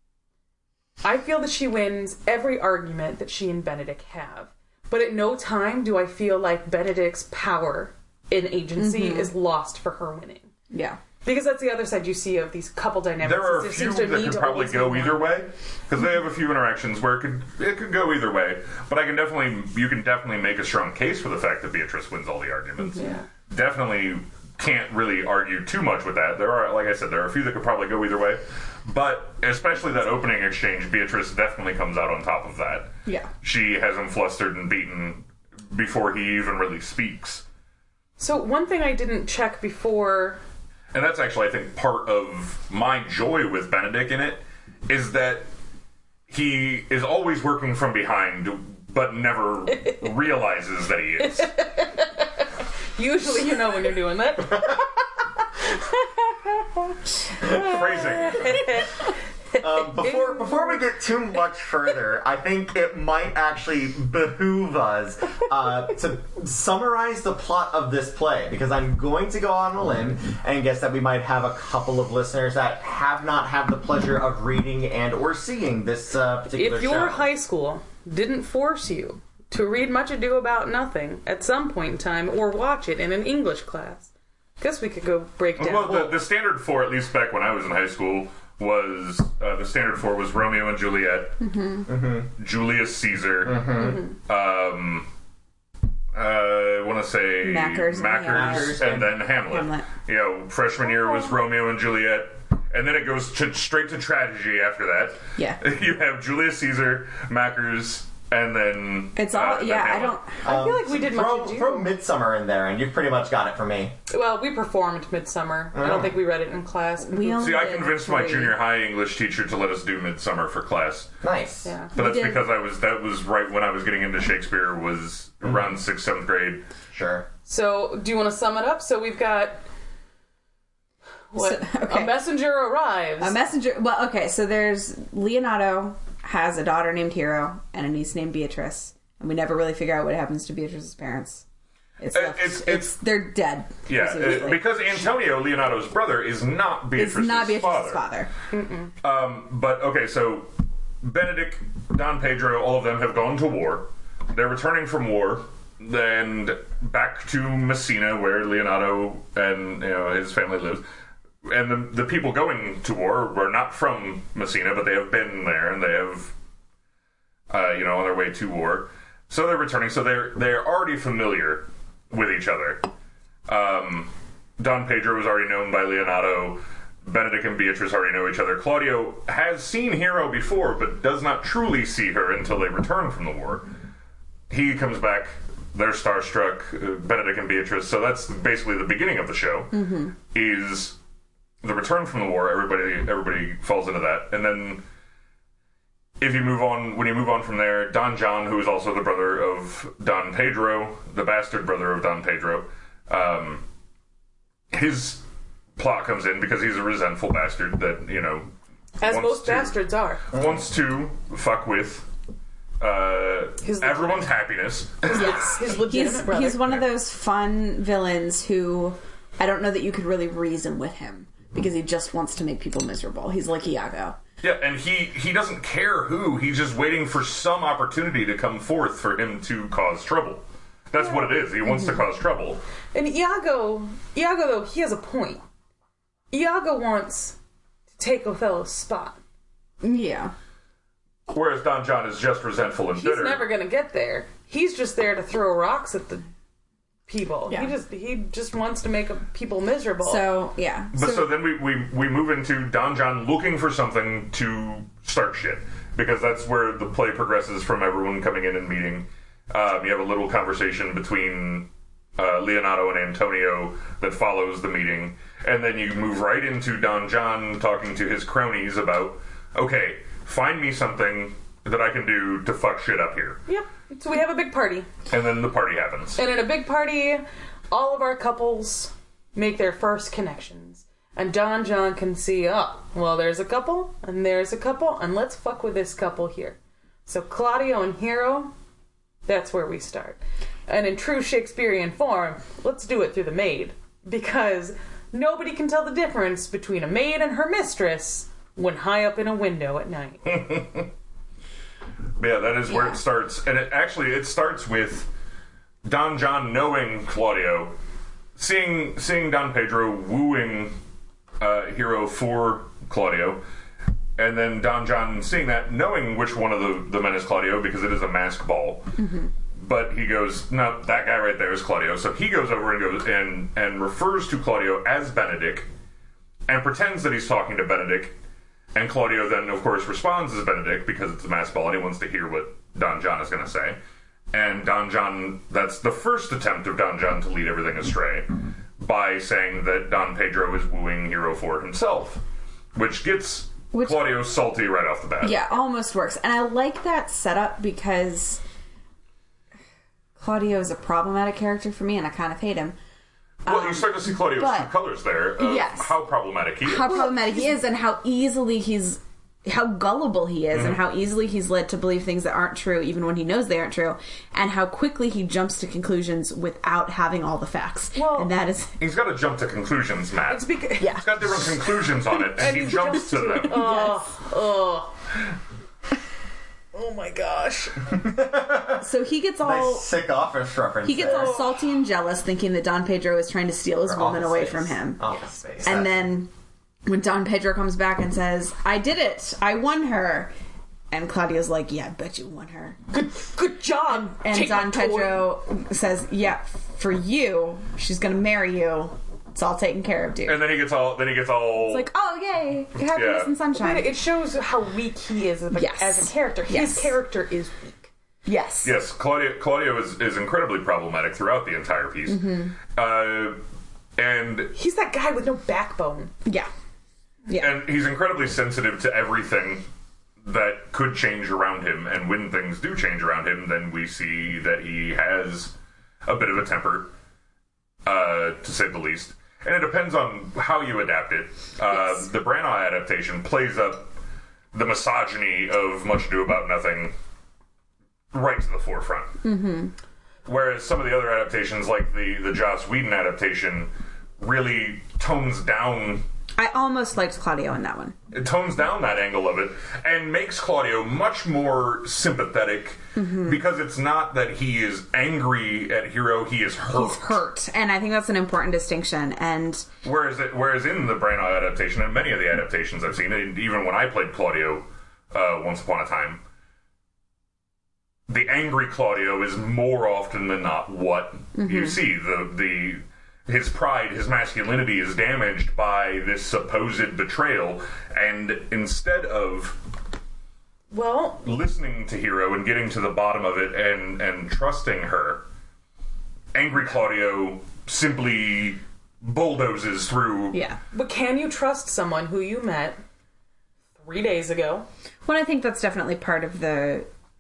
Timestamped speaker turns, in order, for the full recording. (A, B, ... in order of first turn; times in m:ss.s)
0:01.0-0:10.5 A
0:08.8-0:09.3 B
0:10.7-0:11.0 B
0:11.2-0:15.4 A
0:13.2-0:37.4 C
0:23.0-0:23.3 A
0:33.0-0:33.3 B
0:38.2-0:40.4 A
0:40.9-0:45.5 C
0:46.3-0:51.5 C
0:49.7-0:50.0 A
0:51.2-0:54.8 A
0:55.7-1:00.8 A
0:57.4-0:58.7 C
0:59.6-1:17.3 D
1:16.5-1:26.2 A
1:25.6-1:31.4 C
1:31.4-1:31.9 B
1:31.9-1:32.3 D
1:32.4-1:35.1 C
1:33.4-1:34.0 D
1:33.8-1:34.0 A
1:36.1-1:50.2 C
1:37.4-1:39.9 B
1:38.3-1:39.1 D
1:40.8-1:41.3 A
1:49.1-1:50.4 B
1:50.4-1:54.0 D
1:50.4-1:51.9 A
1:54.1-1:57.6 A
1:55.7-1:56.1 D
1:57.0-1:58.6 B
1:57.4-2:01.1 C
2:01.2-2:01.7 D
2:01.6-2:01.9 A
2:01.9-2:02.4 B
2:01.9-2:06.6 C
2:06.9-2:07.2 D
2:07.4-2:09.6 A
2:11.3-2:13.4 A
2:11.4-2:12.2 B
2:13.2-2:21.4 B
2:22.0-2:25.1 B
2:22.1-2:23.0 C
2:23.8-2:28.0 C
2:26.9-2:28.3 B
2:28.5-2:28.9 A
2:29.0-2:30.5 C
2:31.0-2:40.8 C
2:41.4-2:46.3 C
2:47.5-2:52.8 C
2:53.5-3:03.7 C
3:04.5-3:11.0 C
3:09.7-3:10.1 B
3:11.6-3:14.8 C
3:16.2-3:23.6 C
3:24.7-3:25.2 C
3:25.8-3:28.5 C
3:29.0-3:30.4 A
3:29.0-3:29.8 C
3:30.3-3:32.1 C
3:32.8-3:35.4 C
3:33.6-3:34.3 A
3:35.0-3:36.8 A
3:35.1-3:44.2 B
3:44.4-3:52.6 C
3:51.7-3:52.0 B
3:52.9-3:55.4 A
3:56.3-3:57.4 A
3:58.0-3:59.2 A
3:59.8-4:00.3 B
4:01.3-4:03.4 C
4:03.0-4:06.2 A
4:07.1-4:10.2 A
4:10.0-4:11.3 B
4:10.9-4:33.4 C
4:33.5-4:34.9 A
4:35.1-4:36.2 C
4:36.2-4:48.5 A
4:49.2-5:00.3 A
5:00.2-5:00.9 C
5:02.2-5:05.1 C
5:02.7-5:03.0 B
5:05.8-5:07.8 C
5:08.4-5:10.8 C
5:11.4-5:13.4 C
5:14.2-5:19.0 C
5:19.0-5:19.3 B
5:19.6-5:25.7 C
5:26.5-5:28.2 C
5:28.7-5:33.8 C
5:34.3-5:42.2 C
5:42.7-5:45.4 C
5:43.7-5:44.1 B
5:45.2-5:48.4 B
5:50.2-5:52.8 B
5:53.4-5:54.7 B
5:53.4-5:57.0 C
5:55.4-5:55.9 B
5:56.6-6:08.8 B
5:56.8-5:57.6 A
6:00.5-6:00.8 C
6:07.9-6:08.3 A
6:08.8-6:13.6 C
6:10.3-6:11.0 A
6:10.8-6:11.2 B
6:12.3-6:15.0 A
6:12.4-6:14.0 B
6:16.7-6:17.9 A
6:17.9-6:18.8 D
6:18.8-6:19.9 B
6:19.4-6:21.4 D
6:20.8-6:25.0 B
6:21.0-6:21.5 A
6:23.9-6:25.9 D
6:25.6-6:26.3 B
6:26.8-6:30.3 B
6:30.9-6:32.8 B
6:32.9-6:35.3 A
6:33.9-6:40.5 B
6:40.2-6:41.9 C
6:41.6-6:43.9 B
6:42.9-6:43.3 C
6:43.5-6:47.9 A
6:45.5-6:46.9 B
6:48.2-6:48.7 B
6:48.6-6:53.4 C
6:52.1-6:52.5 B
6:54.0-6:54.5 C
6:54.5-6:56.1 A
6:57.3-6:57.6 B
6:57.3-6:59.6 C
7:00.2-7:05.5 C
7:06.0-7:06.9 C
7:07.8-7:13.9 C
7:11.7-7:12.0 B
7:14.5-7:16.9 C
7:18.1-7:19.2 C
7:19.2-7:19.7 B
7:20.2-7:26.0 C
7:26.4-7:28.0 B
7:28.1-7:37.2 C
7:33.0-7:33.4 B
7:36.7-7:39.7 B
7:39.8-7:46.2 C
7:48.1-7:59.6 C
7:51.4-7:51.8 B
8:00.7-8:01.2 A
8:01.2-8:05.2 C
8:06.3-8:10.4 C
8:10.3-8:10.6 B
8:10.7-8:12.8 A
8:13.8-8:14.7 A
8:15.0-8:16.9 B